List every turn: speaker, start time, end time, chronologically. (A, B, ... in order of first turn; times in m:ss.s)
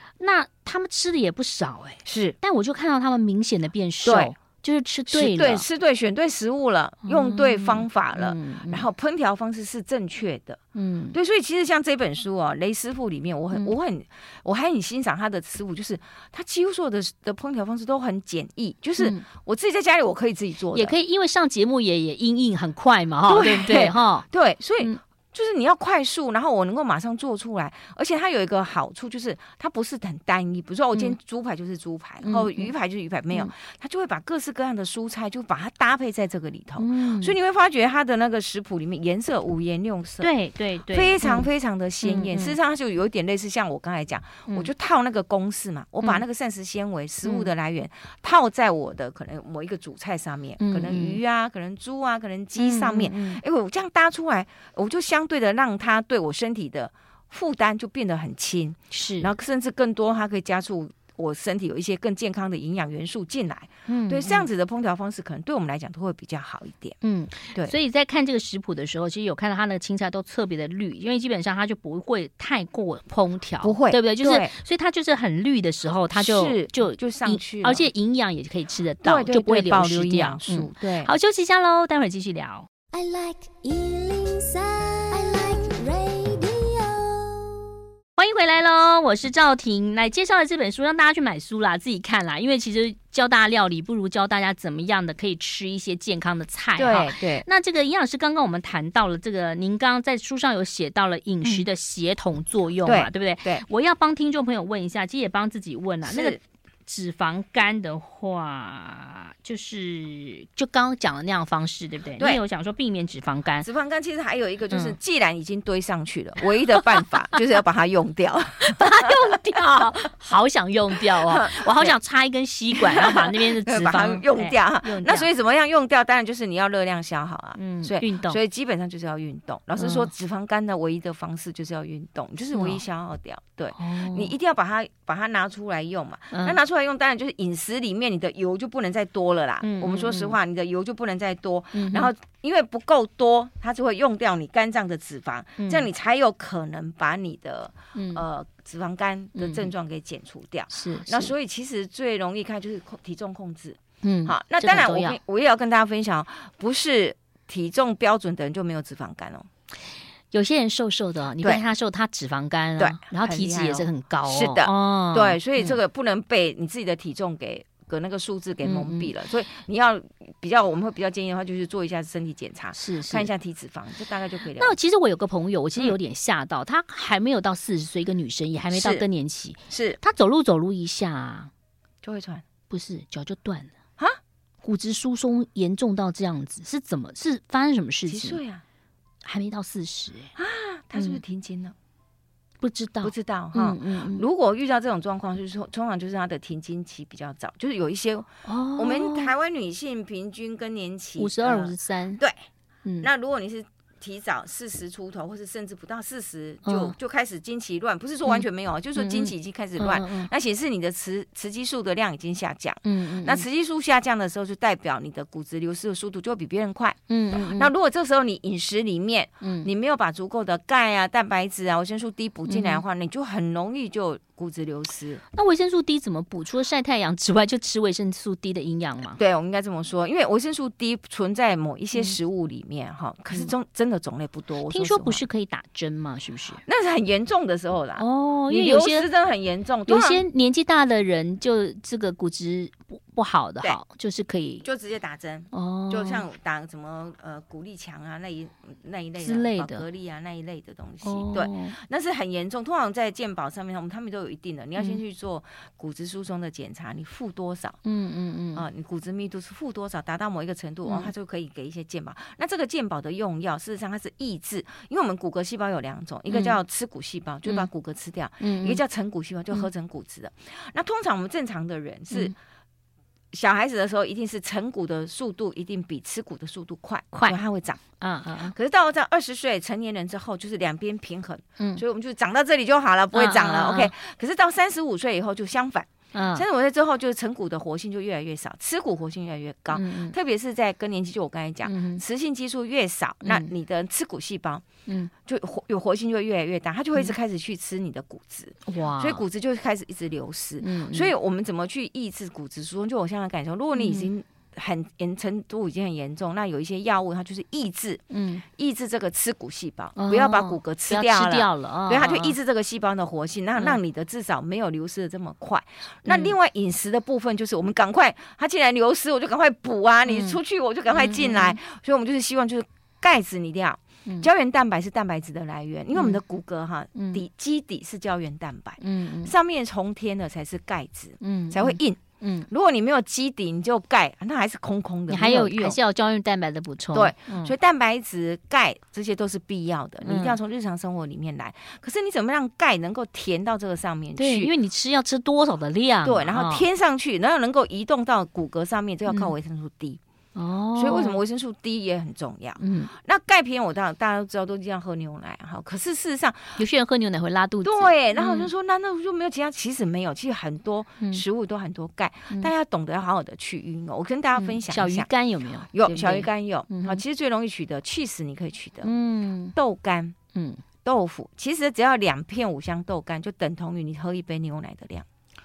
0:00.2-0:05.6 A
0:02.0-0:02.4 B
0:04.0-0:04.4 B
0:05.1-0:10.6 B
0:07.0-0:08.8 A
0:10.8-0:11.2 A
0:11.1-0:21.0 B
0:19.0-0:19.2 A
0:20.7-0:24.2 A
0:23.3-0:40.3 B
0:32.2-0:32.7 A
0:36.8-0:37.4 A
0:40.2-0:41.5 A
0:40.9-1:07.0 B
0:42.0-0:42.6 A
0:47.2-0:47.5 A
0:50.6-0:51.2 A
0:52.6-0:53.4 A
0:58.9-0:59.3 A
1:03.9-1:04.5 A
1:07.0-1:22.7 A
1:13.6-1:14.5 B
1:16.1-1:17.8 B
1:19.0-1:21.1 B
1:22.9-1:27.6 C
1:28.2-1:53.7 A
1:36.8-1:37.5 B
1:42.8-1:43.6 B
1:46.0-1:46.4 B
1:53.6-1:59.1 B
1:54.7-1:55.0 A
1:58.6-2:05.3 A
2:01.1-2:02.0 B
2:02.8-2:39.5 B
2:07.6-2:08.4 A
2:09.8-2:10.1 A
2:12.5-2:12.8 A
2:13.8-2:14.3 A
2:16.3-2:16.6 A
2:19.6-2:20.4 A
2:21.7-2:22.1 A
2:25.6-2:25.9 A
2:28.0-2:28.2 A
2:29.4-2:29.7 A
2:30.7-2:31.3 A
2:34.0-2:35.2 A
2:40.3-2:45.8 A
2:42.8-2:54.8 B
2:48.6-2:49.1 A
2:52.7-2:53.3 A
2:54.6-3:01.5 A
2:58.7-2:59.0 B
2:59.7-3:00.0 B
3:02.0-3:02.4 B
3:02.7-3:03.7 A
3:04.6-3:08.4 A
3:08.1-3:08.6 B
3:09.2-3:10.3 A
3:10.4-3:11.8 B
3:11.0-3:11.2 A
3:12.6-3:14.3 A
3:13.0-3:22.4 B
3:18.4-3:19.3 A
3:21.2-3:22.2 A
3:23.0-3:45.2 B
3:26.6-3:27.0 A
3:28.3-3:30.3 A
3:32.8-3:33.4 A
3:37.1-3:37.7 A
3:39.4-3:39.7 A
3:42.5-3:42.8 A
3:45.3-3:49.2 A
3:49.2-3:55.2 B
3:54.7-3:56.6 A
3:56.6-4:00.2 B
3:58.0-3:59.1 A
3:59.9-4:04.7 A
4:04.6-4:17.8 B
4:05.5-4:06.2 A
4:09.2-4:09.8 A
4:11.0-4:11.8 A
4:17.8-4:18.6 A
4:18.6-4:32.3 B
4:20.9-4:21.1 A
4:26.3-4:26.6 A
4:28.4-4:28.8 A
4:33.3-4:37.8 B
4:38.0-4:38.6 A
4:38.5-4:54.6 B
4:43.1-4:43.9 A
4:46.1-4:46.4 A
4:49.7-4:50.2 A
4:51.7-4:52.0 A
4:53.2-4:53.5 A
4:54.9-4:55.1 A
4:55.2-5:35.8 B
4:58.7-4:59.2 A
5:00.6-5:01.1 A
5:03.8-5:04.1 A
5:08.1-5:08.4 A
5:10.0-5:12.4 A
5:16.1-5:16.4 A
5:20.1-5:20.4 A
5:20.9-5:21.6 A
5:25.9-5:26.2 A
5:27.0-5:27.2 A
5:28.8-5:29.3 A
5:31.2-5:32.5 A
5:35.1-5:37.5 A
5:36.9-5:44.5 B
5:40.0-5:40.4 A
5:44.2-5:46.6 A
5:46.0-5:50.0 B
5:49.1-5:49.3 A
5:50.4-5:51.2 A
5:50.8-5:56.6 B
5:52.6-5:52.9 A
5:56.6-5:58.5 A
5:57.6-6:05.1 B
6:04.4-6:07.0 A
6:05.7-6:08.9 B
6:08.8-6:09.6 A
6:09.6-6:10.2 B
6:10.3-6:10.6 A
6:10.8-6:15.1 B